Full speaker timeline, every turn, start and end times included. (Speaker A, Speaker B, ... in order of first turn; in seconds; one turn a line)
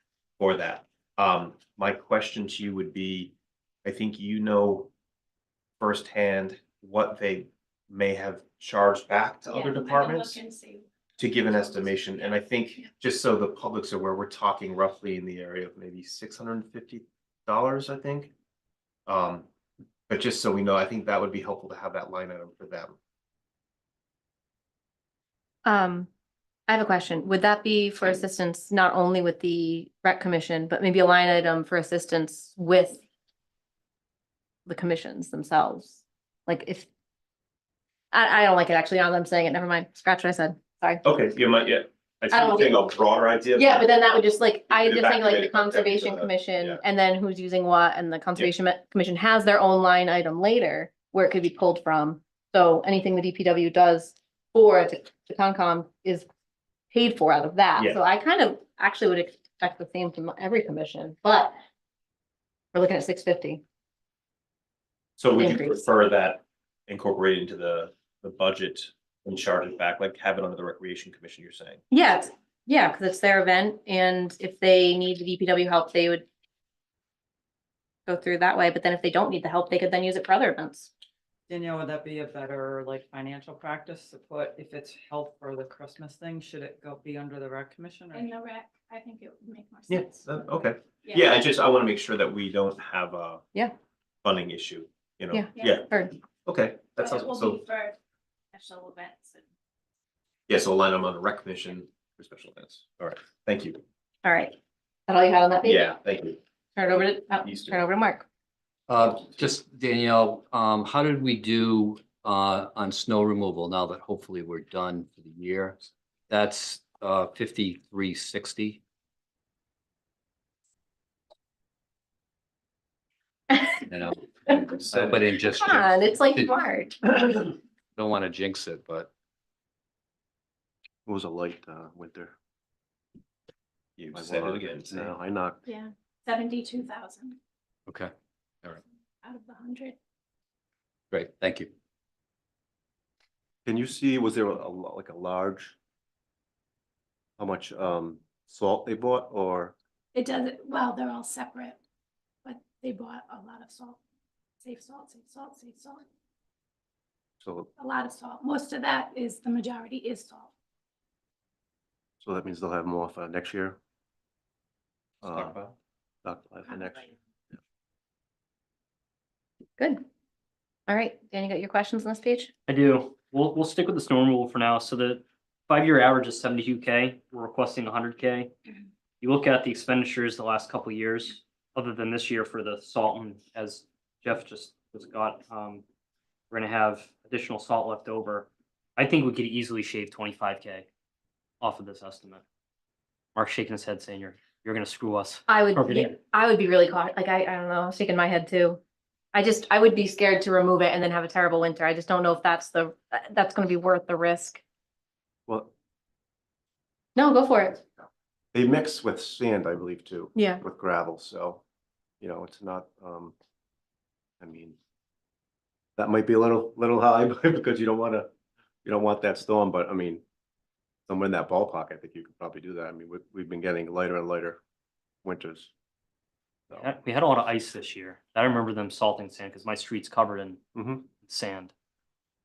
Speaker A: 0.4-4.9
Speaker A: 5.8-10.4
Speaker B: 9.5-12.9
Speaker A: 11.2-18.3
Speaker A: 19.1-19.5
Speaker A: 20.1-23.0
Speaker C: 25.6-26.1
Speaker C: 26.7-33.0
Speaker C: 34.7-36.9
Speaker C: 38.1-41.0
Speaker A: 41.0-43.9
Speaker C: 42.3-42.9
Speaker C: 43.6-56.3
Speaker A: 44.7-46.8
Speaker C: 56.9-61.5
Speaker C: 62.7-63.6
Speaker A: 65.2-71.8
Speaker C: 65.3-65.8
Speaker C: 71.9-76.3
Speaker C: 78.1-80.9
Speaker D: 81.5-88.3
Speaker B: 88.1-91.5
Speaker A: 89.9-93.4
Speaker A: 94.2-95.9
Speaker C: 95.3-96.2
Speaker B: 95.5-95.8
Speaker A: 96.5-97.6
Speaker B: 97.0-98.0
Speaker B: 98.5-99.4
Speaker A: 100.5-103.8
Speaker C: 104.2-104.5
Speaker C: 105.1-105.9
Speaker A: 105.6-106.4
Speaker C: 106.8-108.3
Speaker A: 106.9-107.8
Speaker E: 108.9-118.8
Speaker C: 123.5-123.8
Speaker E: 123.9-126.5
Speaker C: 125.5-127.0
Speaker E: 128.0-129.1
Speaker F: 131.1-132.3
Speaker A: 134.0-135.1
Speaker F: 134.1-135.7
Speaker B: 135.7-137.4
Speaker E: 137.9-138.1
Speaker B: 139.2-140.0
Speaker E: 141.1-141.7
Speaker F: 143.7-145.8
Speaker F: 147.4-149.8
Speaker B: 150.2-151.8
Speaker B: 152.4-154.0
Speaker B: 154.6-156.0
Speaker F: 157.4-157.7
Speaker B: 157.8-160.5
Speaker F: 162.2-163.8
Speaker F: 165.2-165.6
Speaker A: 165.2-165.8
Speaker F: 166.2-167.1
Speaker C: 169.8-170.0
Speaker C: 170.9-172.5
Speaker G: 172.7-178.5
Speaker G: 179.2-185.8
Speaker G: 186.5-190.9
Speaker G: 191.6-192.4
Speaker G: 193.3-196.1
Speaker C: 195.5-198.8
Speaker C: 199.3-204.6
Speaker C: 207.2-207.8
Speaker F: 208.5-211.6
Speaker C: 210.3-210.6
Speaker F: 212.2-213.3
Speaker F: 214.4-214.8
Speaker F: 216.0-218.3
Speaker F: 218.8-220.2
Speaker F: 221.1-224.6
Speaker F: 225.2-225.7
Speaker G: 226.8-231.7
Speaker F: 230.8-231.1